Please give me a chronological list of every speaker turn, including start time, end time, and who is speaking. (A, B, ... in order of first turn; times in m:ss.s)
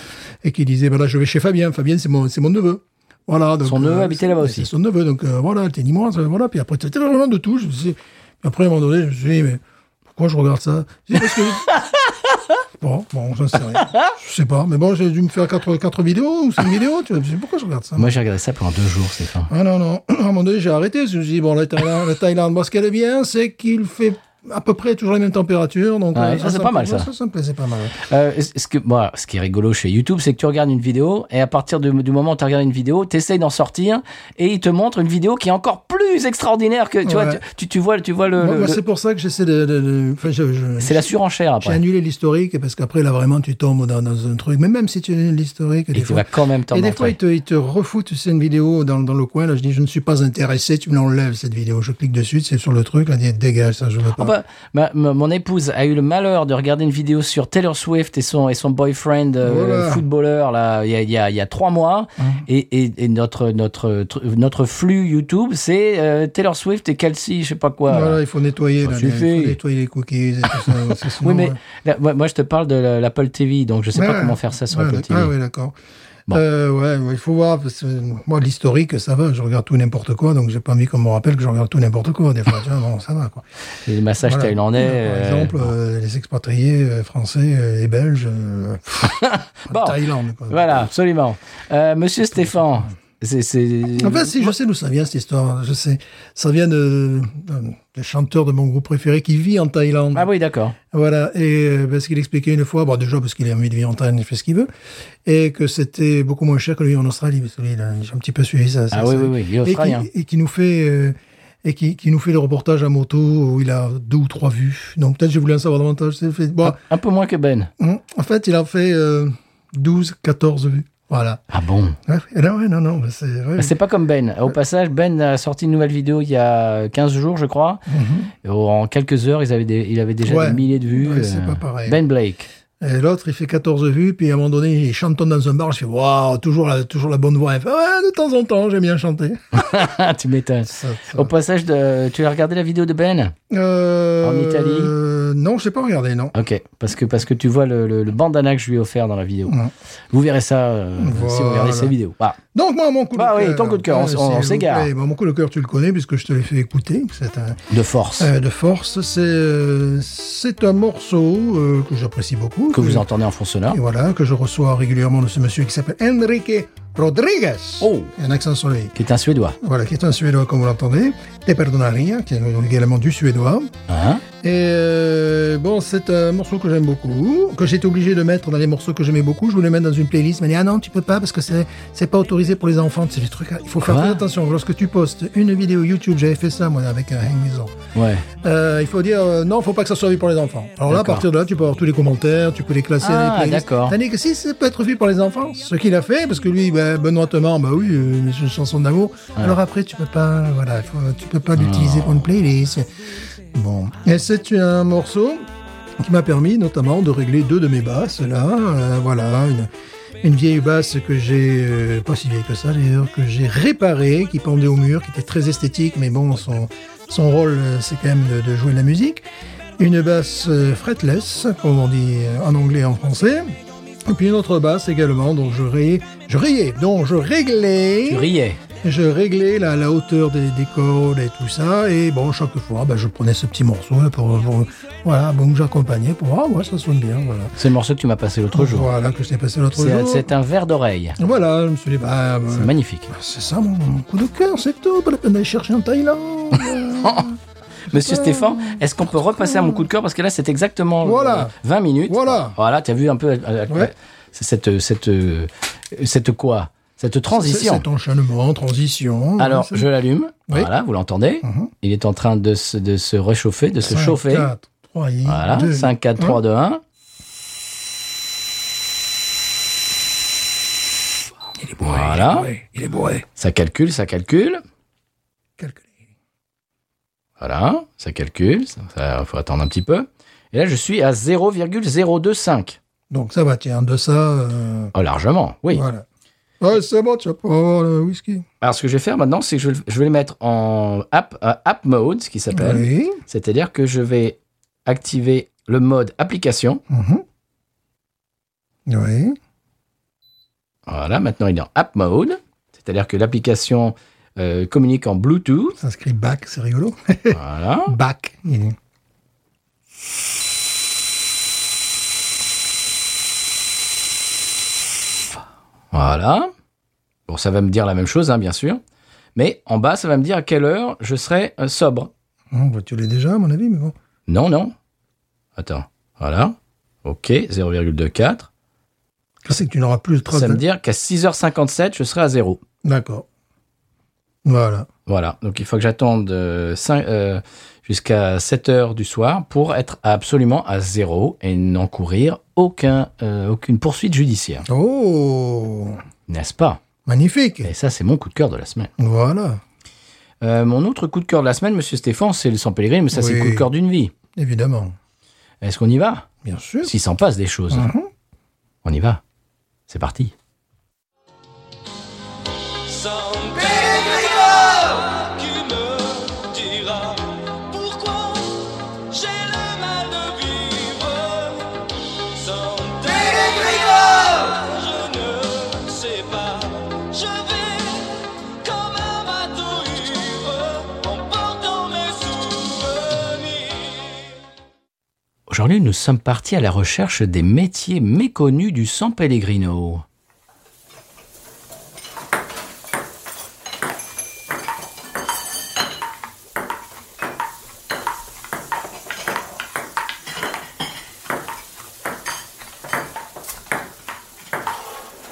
0:00.4-0:11.7 A
0:03.6-0:04.7 B
0:11.7-0:12.1 B
0:12.8-0:18.2 A
0:13.7-0:14.1 B
0:18.0-0:19.5 B
0:19.5-0:28.0 A
0:26.1-0:27.1 B
0:28.0-0:38.8 B
0:37.0-0:37.4 A
0:38.4-0:41.1 A
0:40.8-0:41.8 B
0:41.6-0:54.3 A
0:45.9-0:47.2 B
0:54.1-1:08.2 B
0:59.4-1:00.0 A
1:02.2-1:02.4 A
1:07.9-1:11.6 A
1:08.8-1:09.6 B
1:10.5-1:15.3 B
1:13.9-1:15.8 A
1:16.3-1:23.4 A
1:23.8-1:25.7 B
1:24.2-1:30.8 A
1:29.0-1:34.5 B
1:34.0-1:40.3 A
1:40.1-1:40.8 B
1:40.9-1:44.7 A
1:45.2-1:56.8 A
1:48.9-1:50.1 B
1:56.6-1:57.7 B
1:57.8-2:01.4 A
2:01.5-2:02.0 B
2:02.0-2:03.7 A
2:03.6-2:07.9 B
2:07.9-2:08.3 A
2:08.4-2:12.5 B
2:10.2-2:12.0 A
2:12.8-2:19.9 A
2:19.5-2:23.4 B
2:20.7-2:21.3 A
2:23.5-2:26.3 A
2:24.2-2:24.9 B
2:26.3-2:29.6 B
2:30.1-2:32.4 B
2:31.0-2:31.9 A
2:32.5-2:37.6 A
2:33.2-2:34.9 B
2:37.7-2:38.3 B
2:38.2-2:43.0 A
2:42.7-2:43.8 B
2:43.7-2:48.9 A
2:47.8-2:48.1 B
2:48.9-2:49.6 B
2:49.6-2:53.7 A
2:53.9-2:54.2 B
2:54.4-3:07.7 A
3:03.8-3:04.2 B
3:07.9-3:08.3 B
3:08.4-3:22.9 A
3:10.9-3:11.2 B
3:13.0-3:14.0 B
3:21.6-3:22.2 B
3:23.5-3:25.4 A
3:26.0-3:29.7 A
3:30.2-3:39.2 A
3:39.8-3:48.3 A
3:48.1-3:48.6 B
3:48.8-3:57.5 A
3:57.6-3:58.9 B
3:58.5-4:00.3 A
3:59.7-4:01.2 B
4:01.2-4:07.4 A
4:02.5-4:03.1 B
4:07.0-4:07.3 B
4:07.9-4:17.8 B
4:07.9-4:09.9 A
4:11.0-4:11.5 A
4:12.1-4:12.6 A
4:17.3-4:19.9 A
4:19.4-4:24.5 B
4:21.4-4:21.7 A
4:23.8-4:26.4 A
4:25.2-4:26.8 B
4:31.6-4:33.2 A
4:31.8-4:32.5 B
4:33.4-4:34.6 B
4:35.6-4:35.9 A
4:37.4-4:42.8 B
4:43.1-4:44.9 A
4:44.9-4:45.8 B
4:45.7-4:46.0 A
4:46.6-4:48.4 A
4:48.6-4:56.8 B
4:52.5-4:53.2 A
4:56.9-4:57.2 A
4:58.9-4:59.4 A
5:00.9-5:05.8 B
5:05.8-5:08.8 A
5:07.3-5:07.9 B
5:15.9-5:16.5 B
5:17.3-5:18.8 B
5:19.4-5:22.1 B
5:22.5-5:23.9 A
5:24.3-5:24.7 B
5:25.6-5:28.5 B
5:29.4-5:30.6 A
5:30.3-5:32.6 B
5:32.8-5:33.2 A
5:34.4-5:34.9 A
5:35.1-5:44.7 B
5:44.7-5:46.0 A
5:46.3-5:46.8 B
5:47.0-5:47.7 A
5:47.6-5:48.9 B
5:49.0-5:49.6 A
5:50.4-5:54.1 B
5:53.1-5:53.7 A
5:54.3-5:55.0 A
5:55.6-5:56.3 B
5:56.4-5:56.9 A
5:56.8-5:57.9 B
5:57.7-5:58.1 A
5:58.8-5:59.2 B
5:59.9-6:00.3 B
6:03.2-6:04.8 C
6:03.7-6:04.4 B
6:05.6-6:07.1 C
6:09.4-6:10.4 C
6:10.3-6:11.6 B
6:12.7-6:13.2 C
6:12.8-6:14.8 B
6:15.2-6:17.7 C
6:18.8-6:20.5 C
6:19.5-6:22.5 B
6:22.0-6:23.7 C
6:25.5-6:30.0 B